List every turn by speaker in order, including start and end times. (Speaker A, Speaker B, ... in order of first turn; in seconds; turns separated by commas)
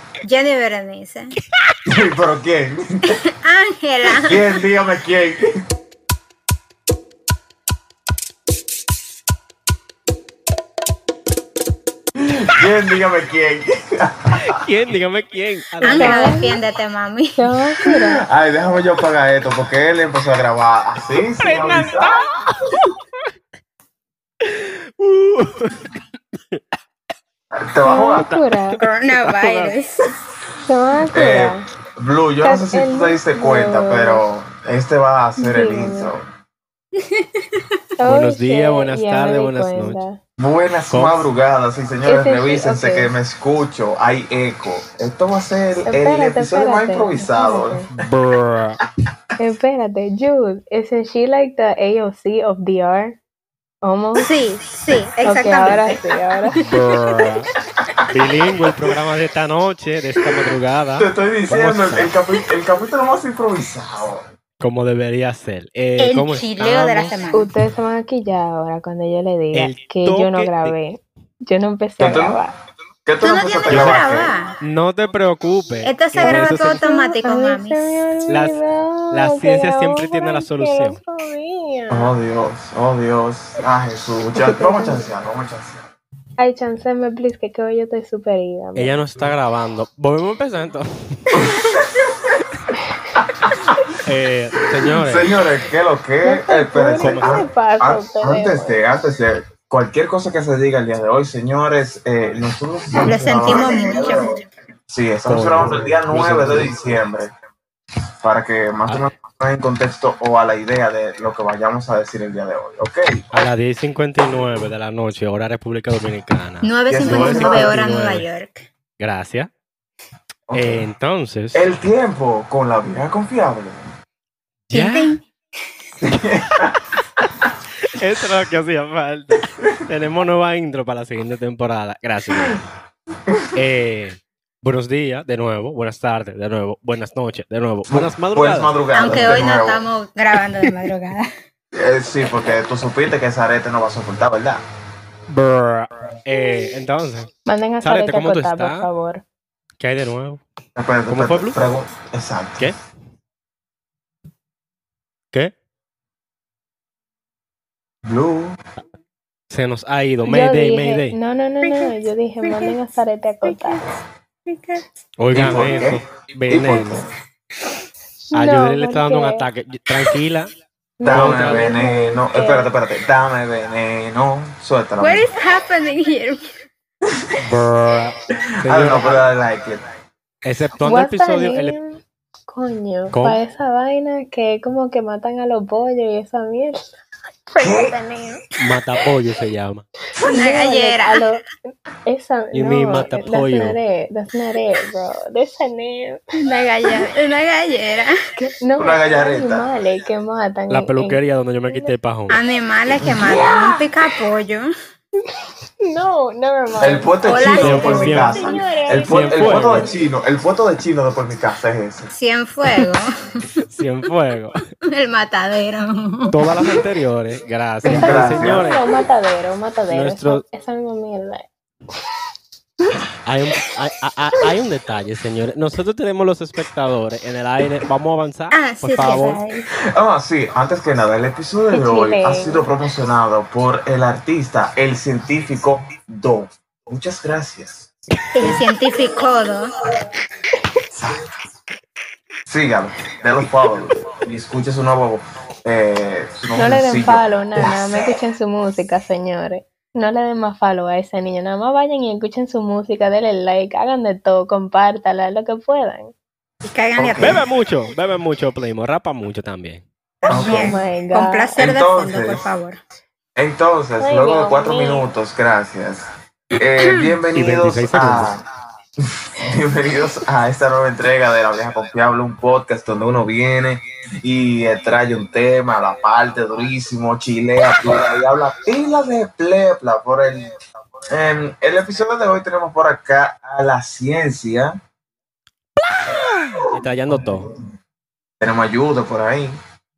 Speaker A: 0.2-1.4, Speaker B: 1.9-3.1, Speaker A: 3.1-4.5, Speaker B: 4.1-5.6, Speaker B: 12.2-14.6, Speaker C: 14.5-16.4, Speaker D: 15.8-16.6, Speaker A: 15.8-17.4, Speaker D: 17.4-18.2, Speaker B: 18.2-22.3, Speaker C: 21.4-22.8, Speaker C: 24.4-25.9, Speaker B: 27.5-28.3, Speaker D: 27.9-28.8, Speaker C: 28.1-28.5, Speaker A: 28.8-30.1, Speaker C: 29.1-29.7, Speaker D: 30.7-31.6, Speaker B: 31.1-36.2, Speaker D: 32.4-34.2, Speaker D: 35.4-36.1, Speaker A: 37.0-37.6, Speaker D: 38.0-40.2, Speaker C: 38.1-40.0, Speaker B: 40.4-47.9, Speaker C: 40.9-41.2, Speaker D: 42.1-43.1, Speaker D: 45.8-47.9, Speaker C: 48.0-48.8, Speaker D: 49.4-53.2, Speaker D: 53.8-54.3, Speaker A: 54.1-56.9, Speaker D: 55.2-56.6, Speaker C: 56.6-57.5, Speaker C: 58.1-62.1, Speaker B: 61.0-64.3, Speaker C: 64.6-67.1, Speaker A: 66.0-67.5, Speaker D: 67.3-72.5, Speaker C: 69.5-70.8, Speaker B: 72.0-72.4, Speaker B: 73.1-74.3, Speaker A: 73.2-74.5, Speaker C: 73.7-74.0, Speaker C: 74.6-76.8, Speaker A: 75.8-78.0, Speaker D: 76.2-82.1, Speaker C: 78.3-78.6, Speaker C: 79.1-81.0, Speaker B: 81.9-85.8, Speaker D: 84.5-85.1, Speaker D: 86.4-89.0, Speaker C: 88.8-91.6, Speaker B: 91.3-92.4, Speaker B: 93.2-93.6, Speaker C: 94.0-95.3, Speaker B: 94.9-107.3, Speaker D: 96.2-98.8, Speaker C: 97.0-97.5, Speaker A: 103.0-104.5, Speaker C: 105.3-106.8, Speaker B: 108.2-113.2, Speaker C: 113.3-118.3, Speaker A: 116.6-118.7, Speaker B: 116.9-117.8, Speaker C: 119.0-119.5, Speaker B: 120.5-120.8, Speaker C: 120.5-121.7, Speaker B: 121.5-123.9, Speaker C: 124.7-125.2, Speaker A: 124.7-125.2, Speaker B: 126.0-126.8, Speaker C: 127.8-132.7, Speaker C: 133.6-138.8, Speaker B: 137.9-139.8, Speaker A: 138.9-141.3, Speaker B: 141.7-144.6, Speaker C: 145.3-147.3, Speaker D: 147.5-149.2, Speaker C: 147.8-148.9, Speaker C: 149.8-150.4, Speaker B: 150.8-152.7, Speaker C: 151.1-151.6, Speaker B: 158.1-158.6, Speaker C: 159.5-161.2, Speaker D: 160.2-163.8, Speaker A: 161.6-162.8, Speaker A: 163.4-163.9, Speaker A: 164.5-164.8, Speaker C: 165.2-167.0, Speaker B: 165.3-167.1, Speaker D: 168.3-169.5, Speaker C: 168.3-170.5, Speaker D: 171.0-172.7, Speaker B: 171.0-175.3, Speaker C: 171.0-171.7, Speaker A: 175.0-176.5, Speaker B: 177.1-177.4, Speaker C: 177.4-179.2, Speaker B: 178.6-179.8, Speaker C: 180.4-181.8, Speaker D: 180.8-187.0, Speaker C: 183.1-183.4, Speaker D: 187.5-188.4, Speaker B: 187.6-188.0, Speaker C: 188.6-189.9, Speaker A: 190.3-191.2, Speaker D: 190.3-191.5, Speaker D: 192.1-196.2, Speaker C: 192.5-193.8, Speaker A: 196.4-198.1, Speaker D: 198.4-201.9, Speaker B: 198.8-199.7, Speaker C: 200.7-202.4, Speaker A: 202.3-204.7, Speaker B: 203.0-203.7, Speaker D: 203.3-203.8, Speaker D: 205.8-209.9, Speaker B: 206.8-212.1, Speaker A: 207.2-208.9, Speaker C: 207.5-208.4, Speaker C: 209.1-209.9, Speaker A: 212.1-213.6, Speaker C: 213.7-214.6, Speaker A: 214.8-216.8, Speaker C: 216.3-218.8, Speaker B: 217.8-218.7, Speaker D: 217.9-221.5, Speaker C: 219.9-220.4, Speaker C: 223.3-229.4, Speaker A: 228.5-229.4, Speaker D: 229.4-229.7, Speaker B: 229.9-237.9, Speaker D: 231.7-232.7, Speaker A: 238.3-239.8, Speaker B: 240.9-241.2, Speaker B: 242.5-248.1, Speaker D: 246.6-256.1, Speaker A: 256.6-257.5, Speaker B: 257.0-257.4, Speaker C: 257.2-259.9, Speaker A: 260.2-262.8, Speaker B: 260.3-260.8, Speaker D: 260.3-261.6, Speaker B: 261.6-262.4, Speaker B: 263.4-268.4, Speaker D: 264.0-265.1, Speaker C: 267.3-268.3, Speaker B: 269.0-280.5, Speaker B: 281.1-284.8, Speaker C: 286.7-287.5, Speaker B: 288.4-289.6